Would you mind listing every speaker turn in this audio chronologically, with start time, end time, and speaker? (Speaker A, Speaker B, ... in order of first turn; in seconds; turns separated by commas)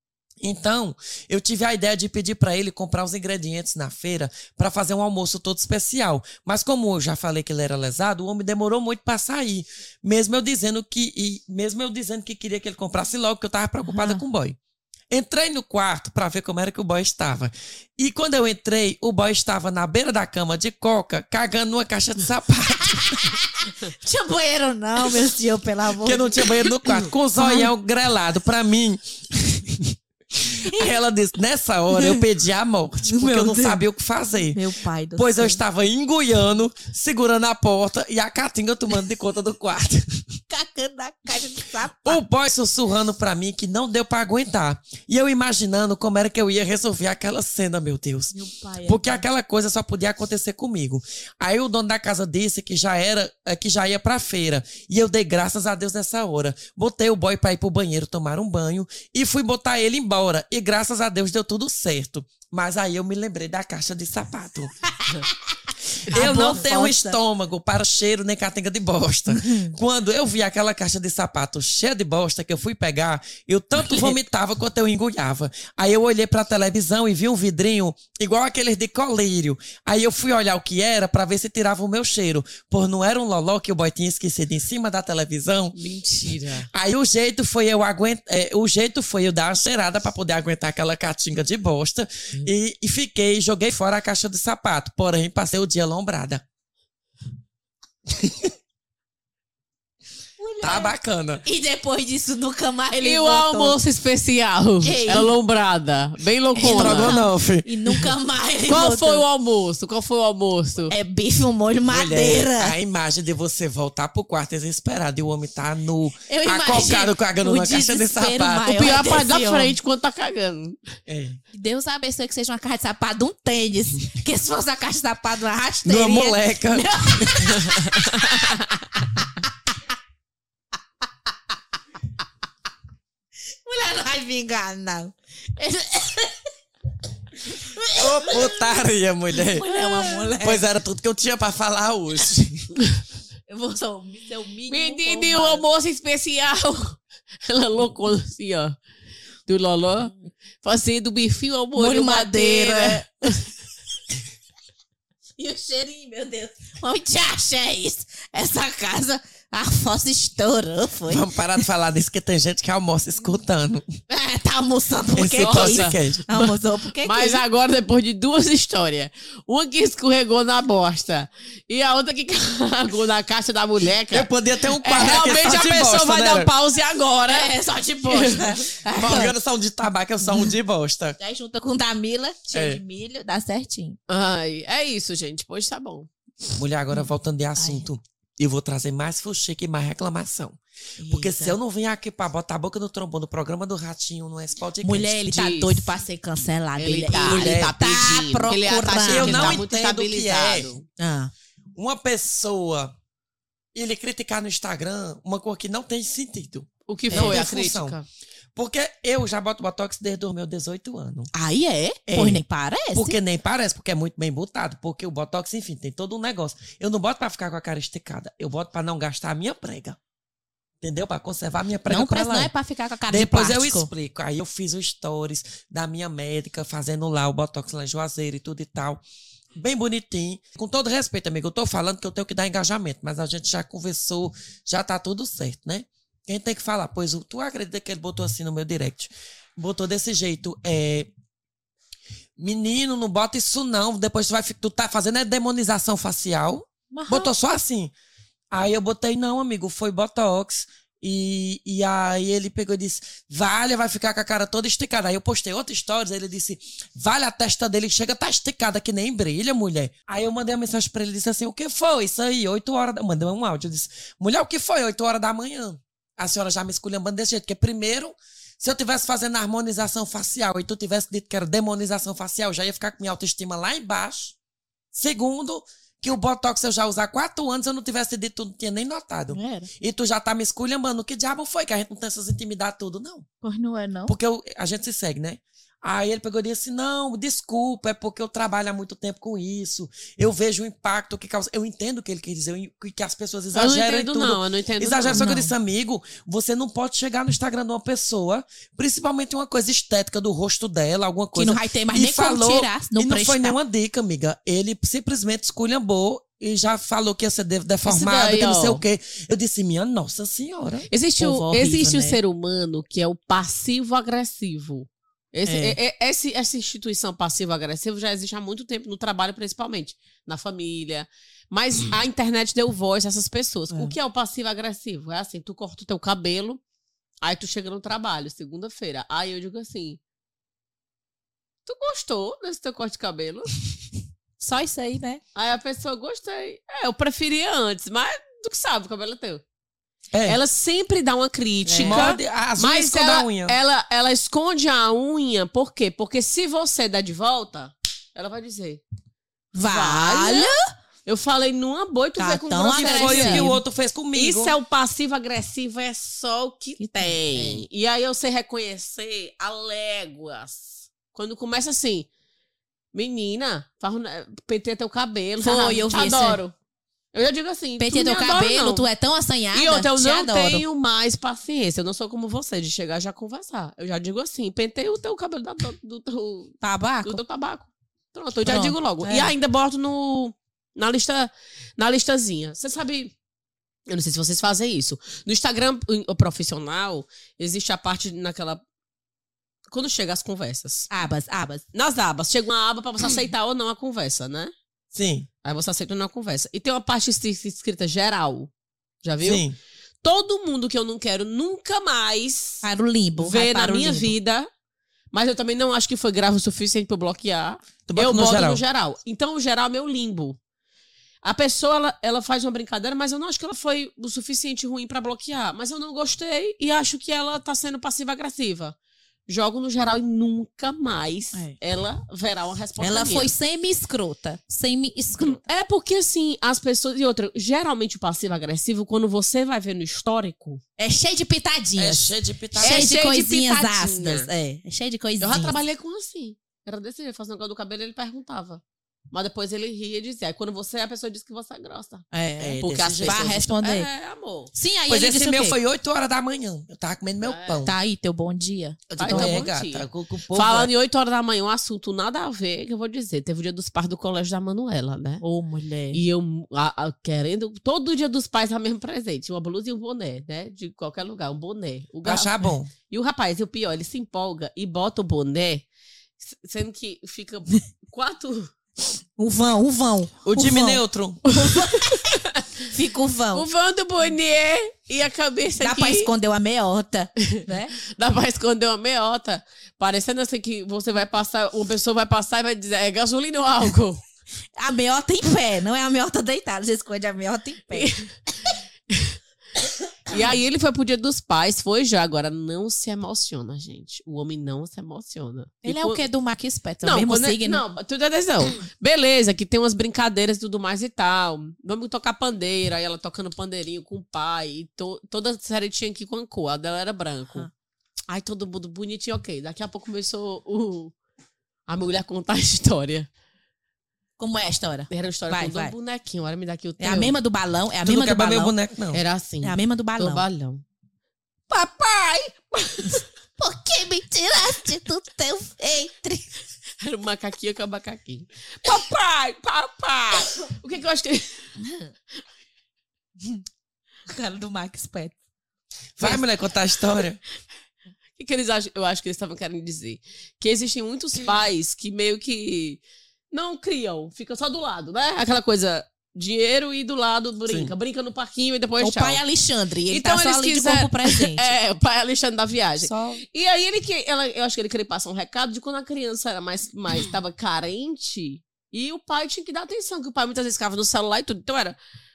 Speaker A: 0.4-14.6, Speaker B: 13.8-14.2, Speaker A: 15.1-23.3, Speaker B: 22.8-27.7, Speaker A: 26.0-29.9, Speaker A: 30.4-34.6, Speaker B: 30.7-30.9, Speaker B: 31.9-32.2, Speaker B: 33.0-33.8, Speaker B: 34.5-35.6, Speaker A: 35.1-40.2, Speaker B: 40.5-42.2, Speaker A: 42.0-64.7, Speaker B: 48.3-49.2, Speaker A: 66.1-85.8, Speaker B: 66.1-67.2, Speaker C: 66.2-66.5, Speaker B: 69.3-69.7, Speaker B: 73.8-74.2, Speaker C: 85.7-86.7, Speaker A: 86.7-96.4, Speaker A: 98.2-98.5, Speaker B: 100.4-103.8, Speaker A: 100.6-101.4, Speaker C: 103.0-107.2, Speaker B: 104.8-105.3, Speaker B: 106.5-109.2, Speaker A: 106.6-108.0, Speaker C: 108.7-110.9, Speaker B: 110.9-112.7, Speaker A: 111.9-118.8, Speaker B: 116.3-119.8, Speaker C: 118.7-121.0, Speaker A: 121.1-121.4, Speaker B: 121.5-129.5, Speaker A: 125.8-127.9, Speaker B: 133.6-136.4, Speaker B: 137.4-138.8, Speaker A: 137.9-139.7, Speaker B: 139.4-140.6, Speaker C: 139.7-140.3, Speaker A: 140.4-142.7, Speaker B: 143.5-145.7, Speaker C: 144.7-148.7, Speaker C: 149.5-153.5, Speaker B: 151.8-153.3, Speaker B: 155.4-161.2, Speaker A: 161.1-163.8, Speaker B: 164.1-167.4, Speaker A: 165.1-166.3, Speaker C: 165.4-177.5, Speaker A: 174.1-176.5, Speaker B: 177.3-179.3, Speaker C: 178.0-178.6, Speaker A: 178.9-181.2, Speaker B: 180.2-180.5, Speaker B: 181.2-183.9, Speaker A: 182.5-182.8, Speaker C: 184.1-186.1, Speaker A: 186.6-195.2, Speaker B: 187.6-187.8, Speaker B: 191.0-191.6, Speaker B: 194.8-199.6, Speaker C: 195.3-195.9, Speaker C: 196.8-200.8, Speaker A: 197.1-197.7, Speaker A: 199.1-200.8, Speaker B: 201.0-201.3, Speaker A: 201.8-202.9, Speaker A: 203.7-208.0, Speaker C: 206.9-208.0, Speaker B: 207.1-207.4, Speaker A: 208.5-211.3, Speaker B: 211.3-213.2, Speaker A: 212.1-212.4, Speaker A: 212.9-220.0, Speaker A: 220.8-222.5, Speaker B: 221.9-223.9, Speaker A: 223.1-229.0, Speaker A: 229.6-241.1, Speaker A: 242.4-247.9, Speaker B: 246.9-247.3, Speaker A: 248.5-274.3, Speaker A: 274.9-283.3, Speaker B: 279.3-279.7, Speaker B: 283.4-284.1, Speaker A: 284.1-310.9, Speaker C: 293.5-295.3, Speaker B: 295.1-295.5, Speaker B: 301.3-303.6, Speaker C: 307.8-308.8, Speaker C: 310.9-326.6, Speaker B: 311.2-312.1, Speaker B: 315.5-315.8, Speaker B: 323.7-323.9, Speaker C: 327.2-330.0, Speaker C: 331.6-333.5, Speaker B: 334.4-335.2, Speaker C: 335.4-339.4, Speaker A: 340.1-340.4, Speaker C: 340.3-348.8, Speaker B: 341.6-342.1, Speaker A: 341.8-343.6, Speaker B: 349.5-350.6, Speaker C: 349.7-350.5, Speaker C: 351.0-353.5, Speaker B: 352.2-353.6, Speaker A: 352.7-354.5, Speaker C: 354.1-362.1, Speaker B: 356.8-357.6, Speaker C: 362.9-366.5, Speaker B: 365.4-366.4, Speaker C: 367.1-368.9, Speaker B: 367.8-370.6, Speaker C: 369.5-383.1, Speaker B: 376.6-377.2, Speaker B: 378.4-379.3, Speaker C: 383.9-388.6, Speaker C: 389.7-390.9, Speaker B: 390.9-391.6, Speaker C: 391.7-394.5, Speaker A: 394.9-395.3, Speaker C: 395.4-398.5, Speaker C: 399.0-399.4, Speaker A: 399.2-399.6, Speaker C: 400.0-402.6, Speaker B: 402.6-404.1, Speaker C: 403.2-404.5, Speaker C: 405.1-410.4, Speaker A: 407.9-408.6, Speaker C: 411.2-418.8, Speaker C: 419.3-423.3, Speaker B: 422.8-425.4, Speaker C: 425.2-430.6, Speaker B: 430.8-435.6, Speaker A: 431.8-432.8, Speaker C: 432.6-434.3, Speaker C: 435.2-442.1, Speaker B: 442.1-443.9, Speaker A: 442.4-443.4, Speaker C: 442.6-444.5, Speaker B: 444.5-445.6, Speaker A: 444.9-447.7, Speaker C: 447.2-447.6, Speaker B: 447.6-449.4, Speaker A: 448.9-450.7, Speaker C: 449.0-455.2, Speaker B: 455.2-456.0, Speaker C: 455.9-465.6, Speaker A: 462.0-462.7, Speaker C: 466.2-468.5, Speaker B: 469.2-470.8, Speaker A: 470.2-471.2, Speaker C: 471.3-472.5, Speaker B: 471.5-472.1, Speaker B: 472.7-473.5, Speaker C: 473.3-476.1, Speaker B: 475.6-477.7, Speaker C: 477.3-484.0, Speaker B: 484.6-487.9, Speaker C: 487.7-489.2, Speaker C: 490.1-496.0, Speaker B: 495.6-497.6, Speaker C: 496.8-507.5, Speaker C: 508.1-510.9, Speaker C: 511.7-513.1, Speaker B: 514.2-515.7, Speaker C: 514.9-517.1, Speaker B: 516.8-518.5, Speaker A: 517.8-519.0, Speaker C: 518.9-520.6, Speaker B: 519.4-520.2, Speaker B: 521.5-522.3, Speaker C: 522.5-523.0, Speaker B: 522.8-526.3, Speaker C: 526.8-531.7, Speaker B: 534.1-535.1, Speaker A: 536.0-537.2, Speaker C: 538.2-549.2, Speaker A: 547.5-547.7, Speaker B: 548.8-551.5, Speaker C: 549.9-561.8, Speaker A: 552.8-553.2